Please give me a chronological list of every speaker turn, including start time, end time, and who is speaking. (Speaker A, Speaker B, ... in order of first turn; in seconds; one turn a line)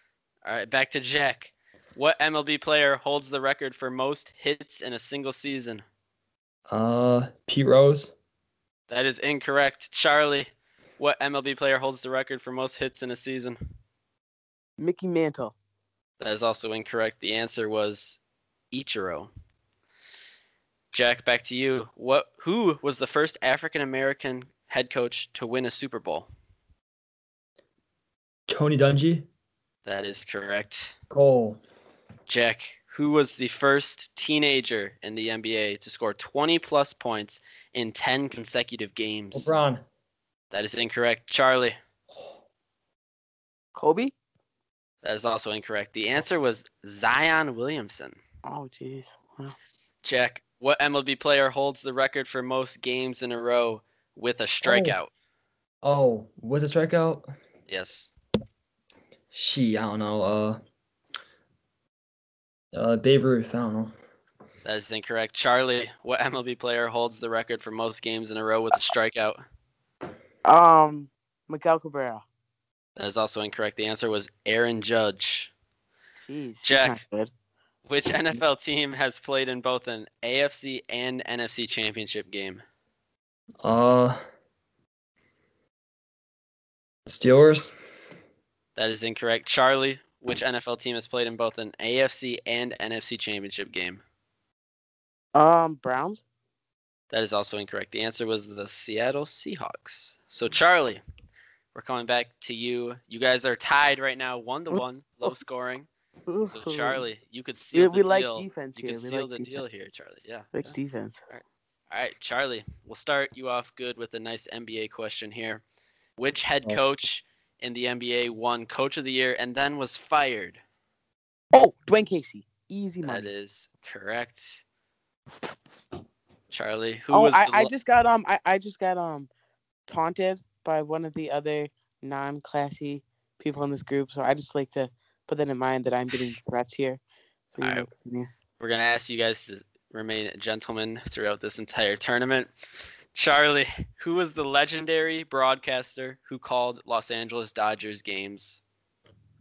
Speaker A: 0.4-5.8
Speaker B: 6.7-8.1
Speaker A: 8.9-13.6
Speaker C: 14.8-15.6
Speaker A: 16.2-18.2
Speaker A: 18.7-19.3
Speaker A: 20.9-26.3
Speaker B: 28.5-29.3
Speaker A: 29.9-30.9
Speaker B: 31.1-31.6
Speaker A: 32.3-39.5
Speaker B: 39.3-39.8
Speaker A: 40.5-41.8
Speaker C: 43.8-44.1
Speaker A: 45.0-48.2
Speaker C: 48.5-49.5
Speaker A: 50.0-55.1
Speaker B: 54.6-55.0
Speaker B: 55.8-57.3
Speaker A: 57.7-58.1
Speaker B: 59.3-60.6
Speaker B: 62.7-63.9
Speaker A: 64.6-69.4
Speaker C: 70.5-72.2
Speaker A: 73.0-75.5
Speaker C: 76.3-77.3
Speaker A: 76.6-77.0
Speaker A: 77.9-82.6
Speaker B: 83.6-84.2
Speaker B: 87.1-87.7
Speaker A: 88.8-94.0
Speaker C: 95.3-96.2
Speaker A: 97.1-101.0
Speaker A: 101.7-105.9
Speaker C: 106.3-107.0
Speaker A: 106.5-110.8
Speaker C: 107.7-109.6
Speaker C: 110.5-111.2
Speaker A: 111.3-115.6
Speaker A: 116.2-120.6
Speaker C: 121.5-123.3
Speaker A: 123.0-124.6
Speaker A: 126.5-127.7
Speaker C: 127.1-129.3
Speaker C: 129.9-137.0
Speaker C: 137.5-138.3
Speaker A: 137.6-137.9
Speaker A: 138.6-142.5
Speaker A: 143.1-148.6